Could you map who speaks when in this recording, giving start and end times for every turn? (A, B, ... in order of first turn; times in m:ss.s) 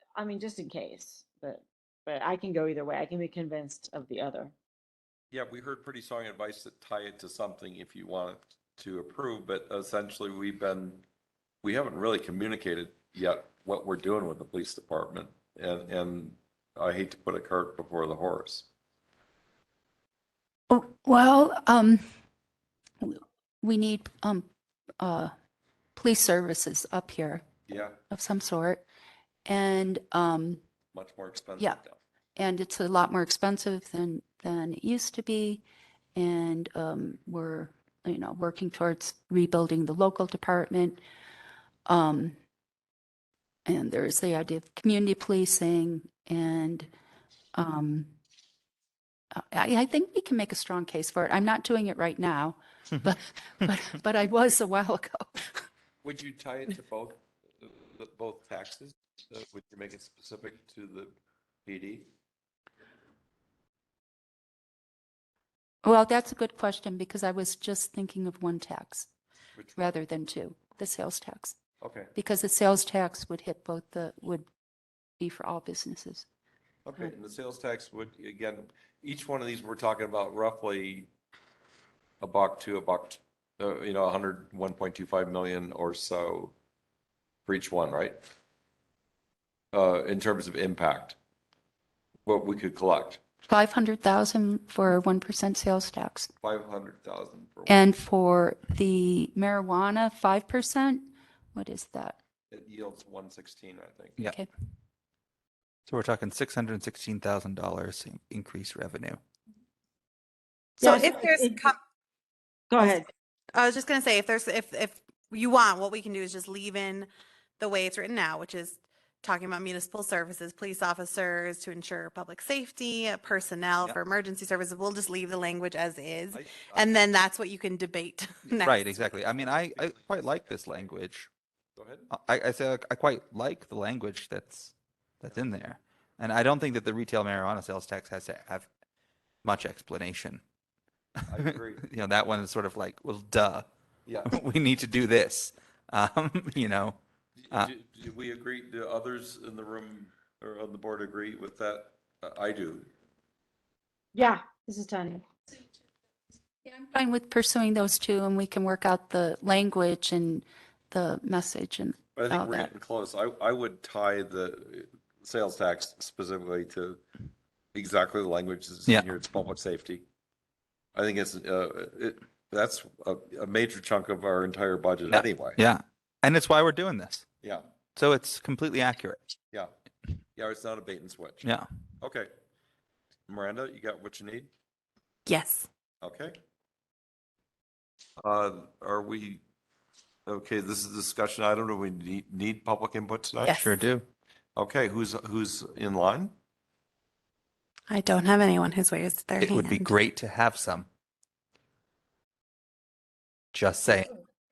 0:00.2-0:04.5 A
0:05.3-0:11.0 B
0:11.6-0:18.7 B
0:20.7-0:22.0 C
0:23.0-0:24.5 C
0:25.0-0:25.3 C
0:26.0-0:27.5 C
0:27.7-0:28.0 B
0:28.1-0:28.8 C
0:29.5-0:30.6 C
0:30.9-0:32.0 B
0:32.4-0:35.6 C
0:36.2-0:41.0 C
0:41.9-0:42.4 C
0:43.7-0:46.9 C
0:47.5-0:48.1 C
0:49.4-0:55.5 C
0:56.0-1:02.1 B
1:05.8-1:09.1 C
1:09.8-1:11.6 C
1:11.8-1:12.1 B
1:12.2-1:14.5 C
1:15.2-1:16.3 C
1:16.9-1:21.1 B
1:22.2-1:26.6 B
1:27.5-1:28.2 B
1:29.7-1:31.2 B
1:32.3-1:33.2 B
1:33.5-1:36.3 C
1:36.4-1:37.8 B
1:37.7-1:42.2 C
1:42.5-1:44.2 B
1:44.2-1:44.5 C
1:45.9-1:49.2 D
1:50.8-1:51.6 A
1:50.8-1:51.8 E
1:52.7-1:53.1 A
1:53.6-1:57.1 E
1:57.6-2:08.8 E
2:06.3-2:07.0 B
2:08.6-2:11.3 D
2:09.0-2:10.9 B
2:11.8-2:12.1 B
2:12.1-2:18.7 D
2:19.4-2:20.4 D
2:21.3-2:21.8 B
2:21.3-2:23.7 D
2:24.1-2:24.4 B
2:24.3-2:27.0 D
2:27.4-2:32.9 B
2:34.1-2:35.2 A
2:36.6-2:42.7 C
2:42.2-2:47.0 B
2:47.7-2:50.0 B
2:48.9-2:49.2 D
2:51.0-2:55.6 B
2:55.1-2:57.2 D
2:57.4-2:57.7 B
2:58.0-2:59.3 D
3:00.4-3:02.3 B
3:03.3-3:04.5 B
3:05.3-3:05.7 E
3:06.0-3:06.4 B
3:08.2-3:09.4 B
3:10.3-3:13.6 B
3:13.5-3:13.7 E
3:13.5-3:14.1 D
3:14.6-3:16.3 B
3:17.9-3:19.9 E
3:19.4-3:20.9 D
3:23.5-3:24.1 D